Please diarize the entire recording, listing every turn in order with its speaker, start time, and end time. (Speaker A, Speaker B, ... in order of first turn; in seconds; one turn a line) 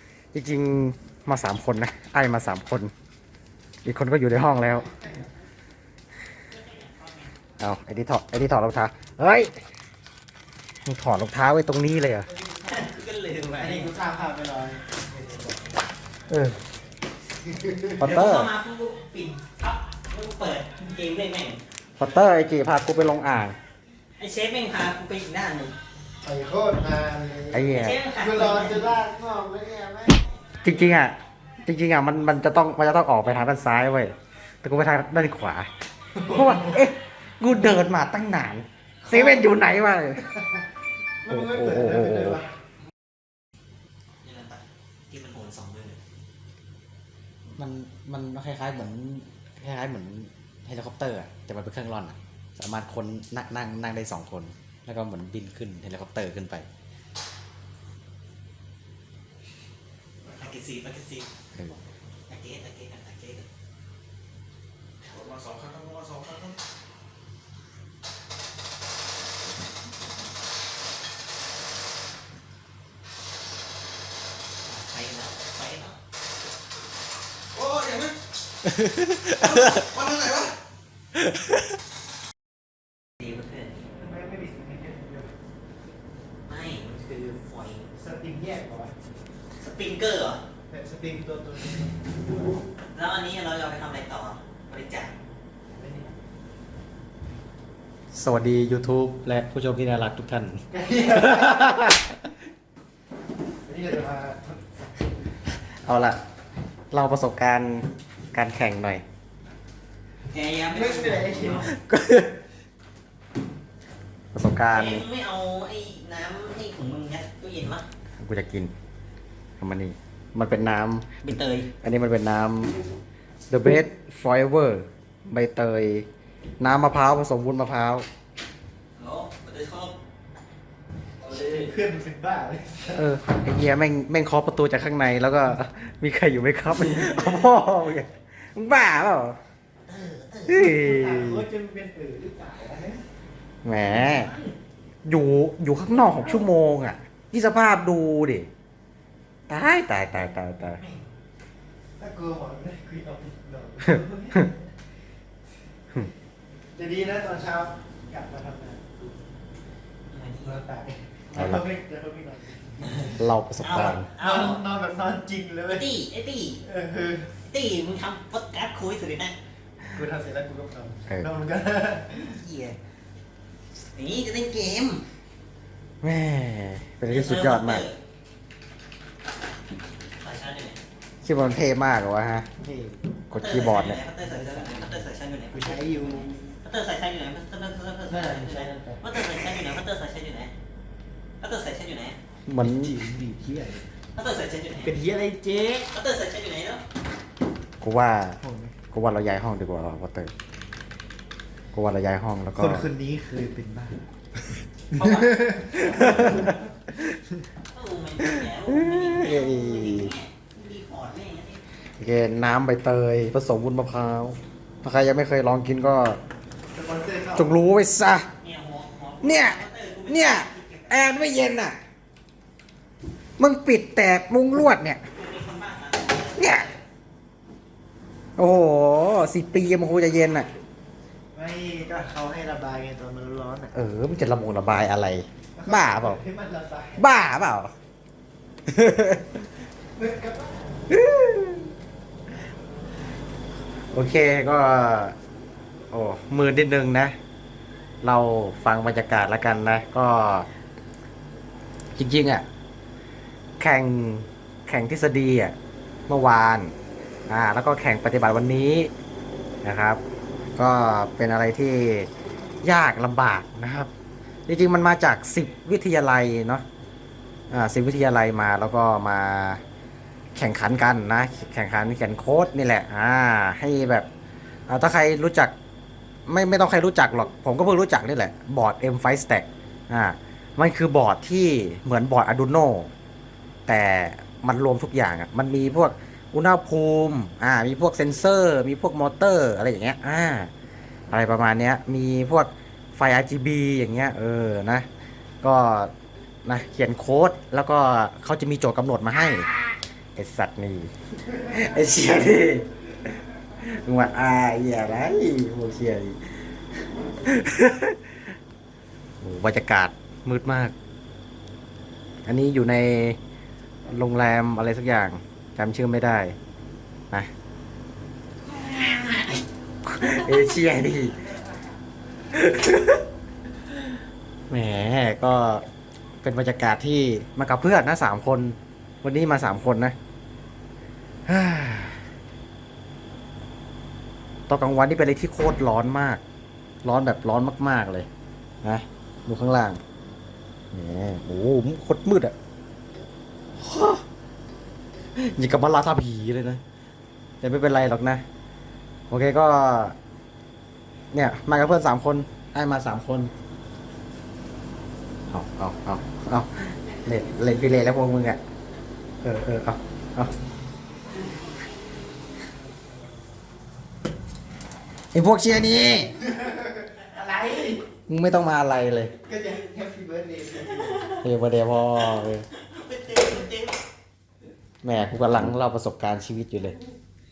Speaker A: 0.3-2.9
Speaker A: 3.9-4.9
Speaker B: 6.5-7.3
Speaker A: 7.6-9.5
Speaker A: 10.8-12.3
Speaker B: 12.5-13.9
Speaker C: 13.6-15.6
Speaker A: 16.3-16.6
Speaker C: 17.5-18.0
Speaker B: 18.0-21.6
Speaker A: 18.0-18.5
Speaker A: 22.0-23.6
Speaker B: 24.2-25.8
Speaker C: 26.2-30.2
Speaker A: 27.5-28.0
Speaker B: 27.7-28.9
Speaker A: 30.6-35.7
Speaker C: 36.2-36.8
Speaker A: 36.2-40.3
Speaker C: 39.1-39.4
Speaker C: 41.2-42.5
Speaker A: 41.3-42.4
Speaker B: 44.2-46.0
Speaker A: 47.5-56.7
Speaker B: 60.3-61.3
Speaker A: 61.5-61.8
Speaker B: 62.3-63.5
Speaker A: 65.3-66.0
Speaker B: 74.6-76.0
Speaker C: 77.6-78.1
Speaker A: 78.8-79.9
Speaker C: 80.0-80.5
Speaker B: 83.2-83.9
Speaker C: 83.9-85.3
Speaker B: 86.5-87.9
Speaker C: 87.9-88.9
Speaker B: 89.6-90.4
Speaker C: 90.7-92.2
Speaker B: 92.9-95.1
Speaker C: 95.8-96.2
Speaker A: 98.1-102.2
Speaker C: 100.7-101.7
Speaker C: 103.7-104.8
Speaker A: 105.5-106.2
Speaker A: 106.9-109.0
Speaker B: 110.3-111.8
Speaker C: 110.7-111.7
Speaker A: 111.7-112.3
Speaker A: 114.3-115.1
Speaker B: 114.7-117.8
Speaker A: 118.2-118.7
Speaker A: 119.6-122.8
Speaker B: 121.2-121.7
Speaker A: 123.5-126.1
Speaker A: 126.6-128.1
Speaker B: 129.0-129.9
Speaker C: 131.3-133.1
Speaker B: 131.4-131.6
Speaker A: 132.9-139.4
Speaker B: 139.9-140.6
Speaker A: 140.5-141.5
Speaker C: 140.6-143.0
Speaker A: 143.6-144.3
Speaker B: 143.9-144.5
Speaker A: 145.1-148.5
Speaker A: 149.5-150.8
Speaker C: 152.0-154.6
Speaker C: 156.8-159.2
Speaker B: 160.1-160.6
Speaker C: 160.4-163.2
Speaker A: 161.3-161.7
Speaker B: 163.0-164.6
Speaker A: 163.2-164.1
Speaker C: 163.8-165.9
Speaker B: 165.7-166.6
Speaker C: 166.6-167.4
Speaker B: 167.5-169.4
Speaker C: 169.9-172.4
Speaker B: 172.2-172.8
Speaker B: 174.0-175.0
Speaker A: 176.0-177.9
Speaker B: 177.1-178.0
Speaker B: 180.2-180.8
Speaker A: 181.2-182.5
Speaker C: 182.6-183.0
Speaker A: 183.3-184.0
Speaker B: 183.3-190.5
Speaker C: 184.2-184.8
Speaker C: 185.5-186.3
Speaker C: 188.1-189.1
Speaker B: 191.4-192.2
Speaker A: 192.5-193.0
Speaker C: 192.6-193.9
Speaker B: 194.2-194.9
Speaker C: 194.8-195.9
Speaker B: 195.9-196.8
Speaker A: 197.8-198.4
Speaker C: 198.4-198.8
Speaker A: 198.9-200.3
Speaker A: 201.7-202.9
Speaker C: 202.6-204.0
Speaker B: 204.9-206.5
Speaker C: 204.9-206.6
Speaker A: 205.9-206.5
Speaker B: 207.7-211.6
Speaker A: 208.4-210.1
Speaker A: 212.0-216.2
Speaker C: 216.7-217.5
Speaker A: 217.3-218.3
Speaker B: 218.4-221.2
Speaker A: 219.2-221.8
Speaker A: 223.4-225.0
Speaker B: 225.1-226.8
Speaker A: 226.4-226.7
Speaker A: 228.4-230.5
Speaker C: 231.3-233.8
Speaker A: 233.7-236.2
Speaker C: 235.6-237.1
Speaker A: 237.0-237.7
Speaker A: 238.7-239.4
Speaker C: 240.0-240.6
Speaker A: 240.9-241.7
Speaker A: 243.9-245.2
Speaker A: 245.9-247.2
Speaker A: 248.0-250.5
Speaker A: 252.0-252.5
Speaker A: 253.6-255.6
Speaker A: 256.1-256.7
Speaker A: 257.3-258.9
Speaker A: 259.6-260.0
Speaker A: 260.6-262.1
Speaker A: 262.6-263.9
Speaker A: 264.5-266.6
Speaker A: 267.5-269.6
Speaker A: 270.4-274.1
Speaker A: 274.7-275.5
Speaker A: 276.3-282.9
Speaker A: 283.7-290.5
Speaker A: 291.1-294.9
Speaker A: 295.4-295.9
Speaker A: 296.4-299.5
Speaker A: 300.2-306.5
Speaker A: 307.2-308.2
Speaker A: 309.2-310.7
Speaker A: 312.3-313.2
Speaker A: 313.9-316.4
Speaker A: 318.8-321.2
Speaker A: 322.3-323.0
Speaker A: 324.5-325.6
Speaker A: 326.2-329.9
Speaker A: 331.3-332.1
Speaker A: 334.5-336.2
Speaker A: 336.8-338.1
Speaker A: 338.6-339.8
Speaker A: 340.7-342.4
Speaker A: 343.6-344.0
Speaker A: 345.2-346.6
Speaker A: 347.4-348.2
Speaker A: 349.1-350.0
Speaker A: 351.1-353.3
Speaker A: 355.3-358.4
Speaker A: 359.2-360.3
Speaker A: 365.1-366.2
Speaker C: 366.3-367.8
Speaker A: 368.1-369.1
Speaker C: 369.2-371.1
Speaker A: 371.2-372.5
Speaker B: 372.1-373.8
Speaker A: 374.8-376.8